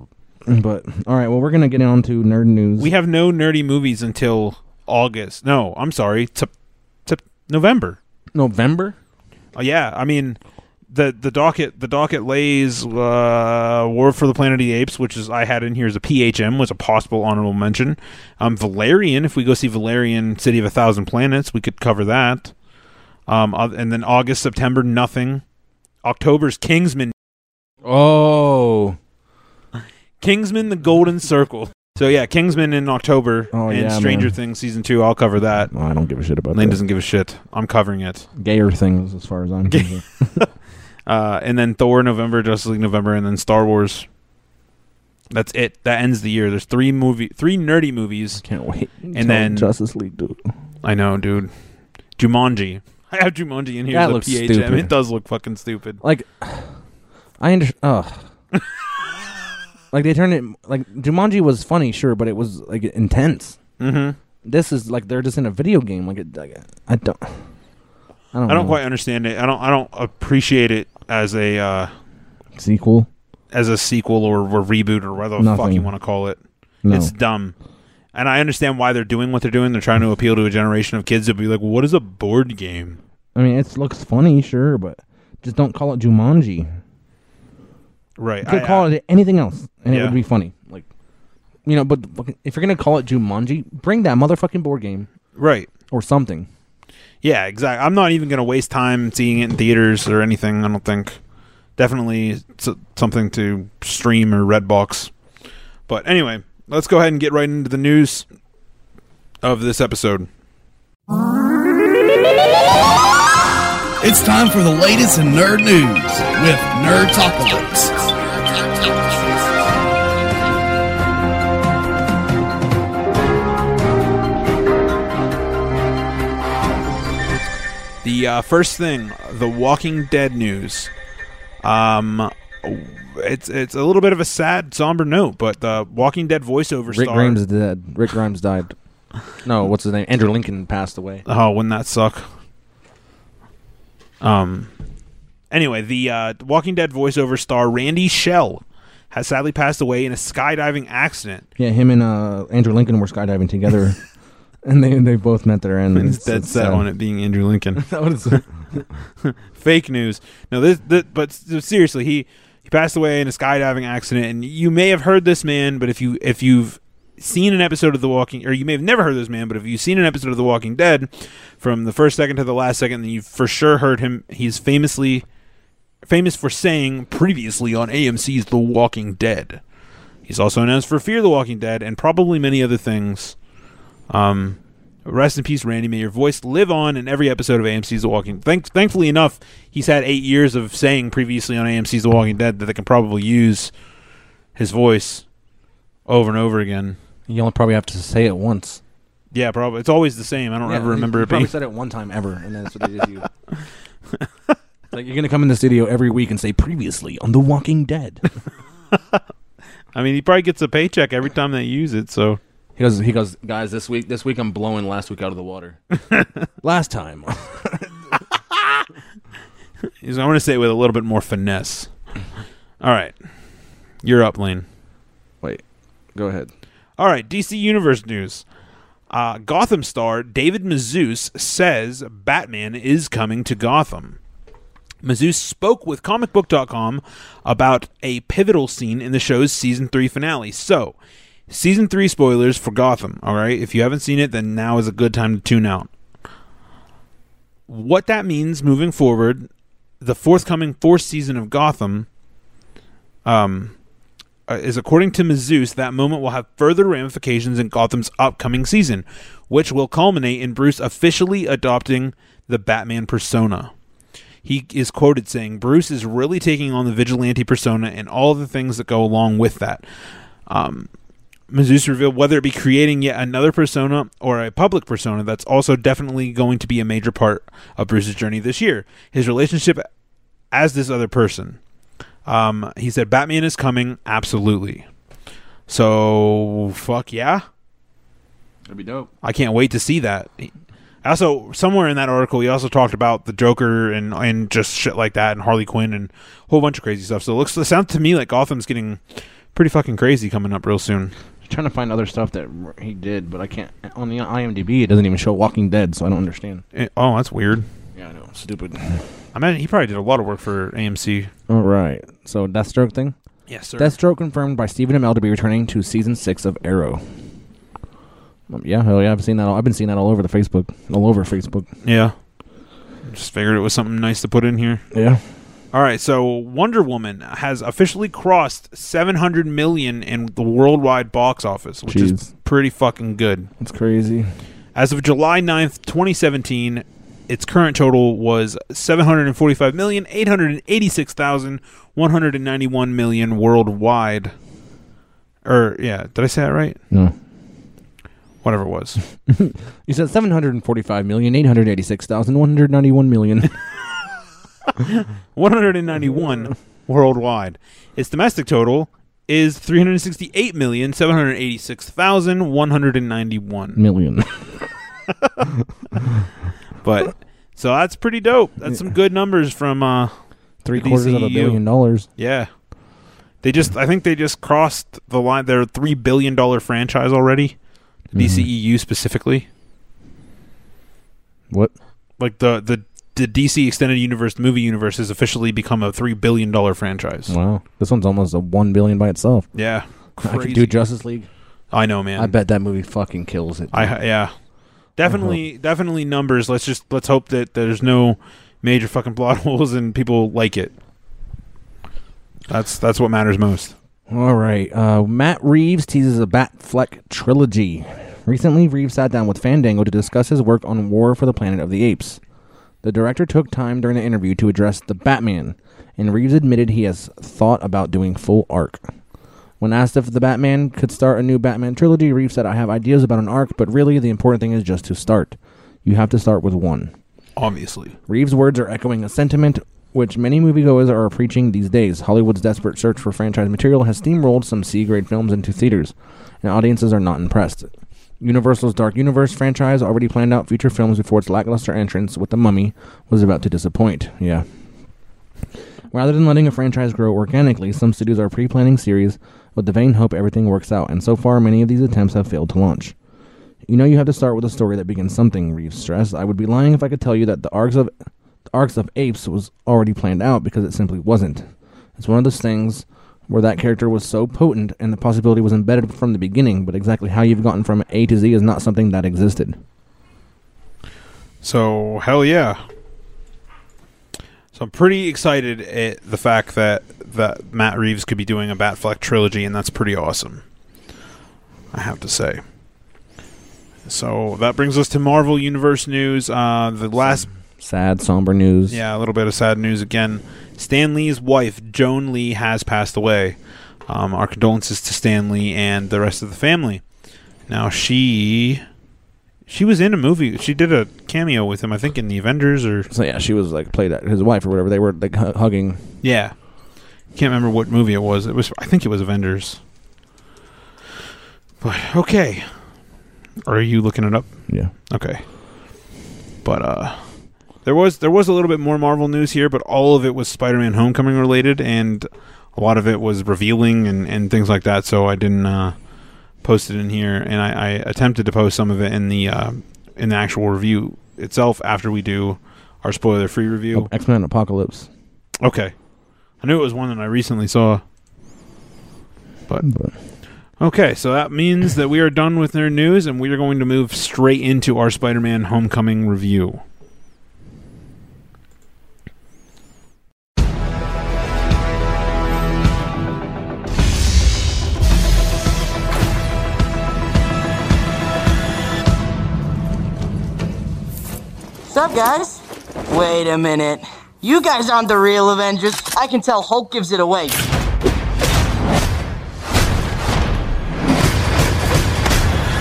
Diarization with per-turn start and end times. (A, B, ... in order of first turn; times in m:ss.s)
0:00.4-0:02.9 A
0:02.8-0:06.5 B
0:07.0-0:08.0 B
0:08.3-0:09.0 A
0:09.5-0:10.4 B
0:10.9-0:22.5 B
0:23.3-0:25.4 B
0:26.0-0:27.1 B
0:27.8-0:29.0 A
0:30.2-0:35.7 B
0:33.5-0:34.3 A
0:35.7-0:36.8 A
0:36.5-0:38.2 B
0:38.4-0:40.4 A
0:39.7-0:40.5 B
0:41.1-0:44.0 B
0:45.3-0:48.4 B
0:48.4-0:50.4 A
0:49.1-0:49.7 B
0:50.8-0:51.5 B
0:52.2-0:56.0 B
0:53.9-0:54.9 A
0:56.0-0:56.7 A
0:57.4-0:58.3 A
0:59.9-1:03.6 A
1:03.8-1:04.2 B
1:04.4-1:07.4 A
1:08.3-1:08.8 A
1:08.5-1:11.9 B
1:12.6-1:13.1 A
1:13.5-1:17.5 B
1:15.4-1:15.9 A
1:16.8-1:17.1 A
1:18.1-1:23.0 B
1:23.3-1:26.7 A
1:28.2-1:28.9 B
1:28.4-1:30.8 A
1:29.9-1:30.2 B
1:31.6-1:35.1 A
1:35.4-1:35.7 B
1:35.9-1:36.5 A
1:37.2-1:41.2 B
1:41.8-1:45.1 B
1:45.9-1:48.2 B
1:49.4-1:50.3 B
1:54.0-1:58.1 C
2:08.0-2:10.9 B
2:11.6-2:17.4 B
2:16.9-2:18.7 A
2:19.4-2:21.2 A
2:21.2-2:22.2 B
2:24.2-2:24.7 B
2:25.5-2:31.4 B
2:31.6-2:34.0 A
2:34.6-2:36.8 A
2:35.9-2:38.4 B
2:37.8-2:38.8 A
2:39.2-2:51.1 B
2:51.6-2:55.2 B
2:56.0-2:59.6 B
3:00.3-3:03.3 B
3:04.1-3:13.7 B
3:14.6-3:15.2 B
3:16.1-3:17.0 B
3:17.3-3:18.8 A
3:19.3-3:21.5 B
3:20.6-3:23.2 A
3:24.9-3:28.2 A
3:29.9-3:32.4 B
3:32.8-3:35.8 A
3:36.6-3:38.1 A
3:40.0-3:41.9 B
3:42.8-3:43.1 B
3:44.0-3:44.6 B
3:46.1-3:46.5 A
3:47.0-3:48.4 B
3:49.1-3:54.2 B
3:55.0-4:01.0 B
4:01.5-4:05.9 B
4:07.7-4:09.5 B
4:10.0-4:12.1 B
4:13.2-4:13.7 B
4:14.5-4:23.7 B
4:24.4-4:29.8 B
4:30.5-4:30.9 B
4:31.5-4:39.8 B
4:40.5-4:41.6 B
4:42.2-4:44.8 B
4:45.7-4:47.4 B
4:48.7-4:49.1 A
4:49.2-4:50.5 B
4:51.0-4:59.0 B
4:59.5-5:01.1 B
5:01.4-5:06.6 A
5:06.7-5:07.6 B
5:07.9-5:09.0 A
5:09.3-5:11.3 B
5:11.5-5:13.1 A
5:13.5-5:13.9 B
5:13.8-5:17.0 A
5:18.5-5:21.7 A
5:21.8-5:22.1 B
5:23.0-5:24.8 B
5:24.9-5:25.2 A
5:25.7-5:33.5 B
5:31.8-5:32.3 A
5:33.6-5:34.3 A
5:34.7-5:44.3 B
5:45.4-5:46.8 B
5:48.4-5:49.0 B
5:49.3-5:53.5 A
5:54.8-6:03.8 B
6:03.7-6:04.6 A
6:06.8-6:10.1 B
6:08.6-6:08.9 A
6:10.6-6:12.1 A
6:10.7-6:11.6 B
6:12.2-6:12.5 B
6:13.4-6:17.5 B
6:18.1-6:19.5 B
6:18.1-6:18.5 A
6:22.2-6:27.3 B
6:27.3-6:29.5 A
6:29.5-6:30.8 B
6:30.2-6:31.3 A
6:31.7-6:32.4 B
6:32.2-6:33.9 A
6:33.7-6:34.3 B
6:35.0-6:40.7 B
6:35.1-6:35.4 A
6:42.5-6:43.7 B
6:44.1-6:52.2 A
6:52.8-6:58.8 A
6:59.6-7:06.9 A
7:07.4-7:07.9 B
7:08.1-7:17.7 A
7:18.2-7:24.4 A
7:25.9-7:32.9 A
7:33.6-7:37.9 A
7:38.5-7:49.6 A
7:51.4-7:52.6 B
7:54.5-8:00.4 B
8:01.7-8:02.4 B
8:03.8-8:07.3 B
8:07.0-8:08.8 A
8:08.7-8:13.4 B
8:13.9-8:16.8 B
8:17.5-8:18.6 B
8:19.5-8:22.9 B
8:22.9-8:25.8 A
8:26.0-8:26.3 B
8:27.1-8:29.6 B
8:31.6-8:32.5 B
8:33.4-8:34.3 B
8:34.9-8:35.2 B
8:36.4-8:37.0 B
8:37.6-8:45.7 B
8:46.4-8:53.9 B
8:53.7-8:54.9 A
8:55.4-8:55.7 B
8:56.4-8:57.8 B
8:59.6-8:59.9 A
9:00.6-9:06.6 B
9:21.7-9:27.4 D